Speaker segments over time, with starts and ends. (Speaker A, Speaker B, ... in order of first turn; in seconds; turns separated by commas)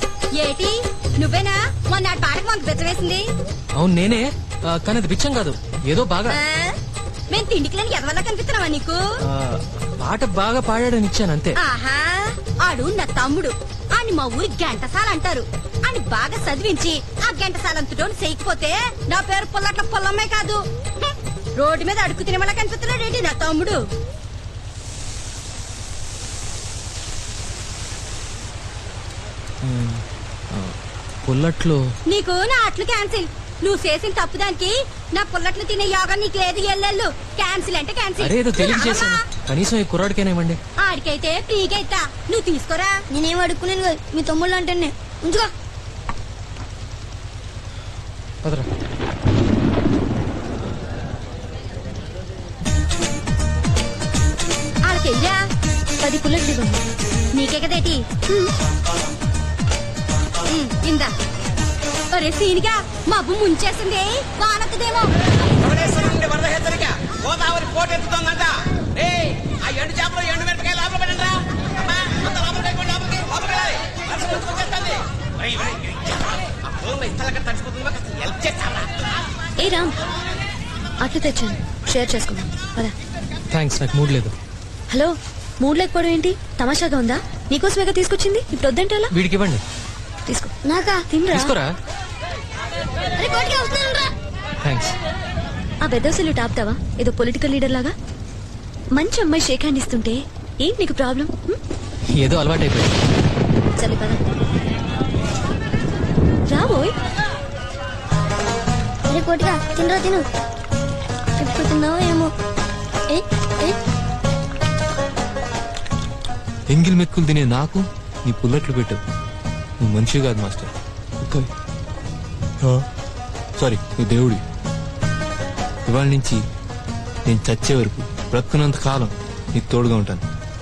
Speaker A: 0.4-3.2, Speaker B: 3.8-6.4, Speaker A: 6.3-6.8, Speaker A: 7.3-9.0, Speaker B: 9.3-11.6, Speaker A: 11.6-20.6, Speaker A: 21.6-23.8, Speaker B: 29.6-30.7, Speaker B: 31.2-31.8, Speaker A: 32.1-39.2, Speaker B: 38.2-40.6, Speaker A: 40.8-43.0, Speaker C: 43.1-45.5, Speaker A: 54.9-55.4, Speaker D: 56.0-56.8, Speaker A: 57.4-58.0, Speaker A: 60.5-61.1, Speaker A: 62.1-65.1, Speaker E: 65.7-68.5, Speaker E: 69.1-71.3, Speaker E: 72.1-75.0, Speaker E: 76.9-78.9, Speaker D: 79.6-79.9, Speaker D: 81.0-82.9, Speaker B: 83.5-84.3, Speaker D: 84.9-89.1, Speaker B: 89.1-89.6, Speaker D: 90.3-90.5, Speaker C: 90.7-91.0, Speaker D: 91.1-91.5, Speaker B: 91.3-91.7, Speaker C: 93.2-94.0, Speaker B: 94.6-95.0, Speaker D: 95.8-97.9, Speaker D: 99.0-101.6, Speaker B: 102.1-102.9, Speaker D: 103.8-104.2, Speaker D: 106.5-107.0, Speaker C: 109.1-110.2, Speaker C: 111.4-112.3, Speaker C: 113.1-113.8, Speaker F: 116.7-119.0, Speaker F: 119.8-120.7, Speaker F: 121.2-121.5, Speaker F: 123.6-124.4, Speaker F: 125.9-126.4, Speaker F: 127.3-130.2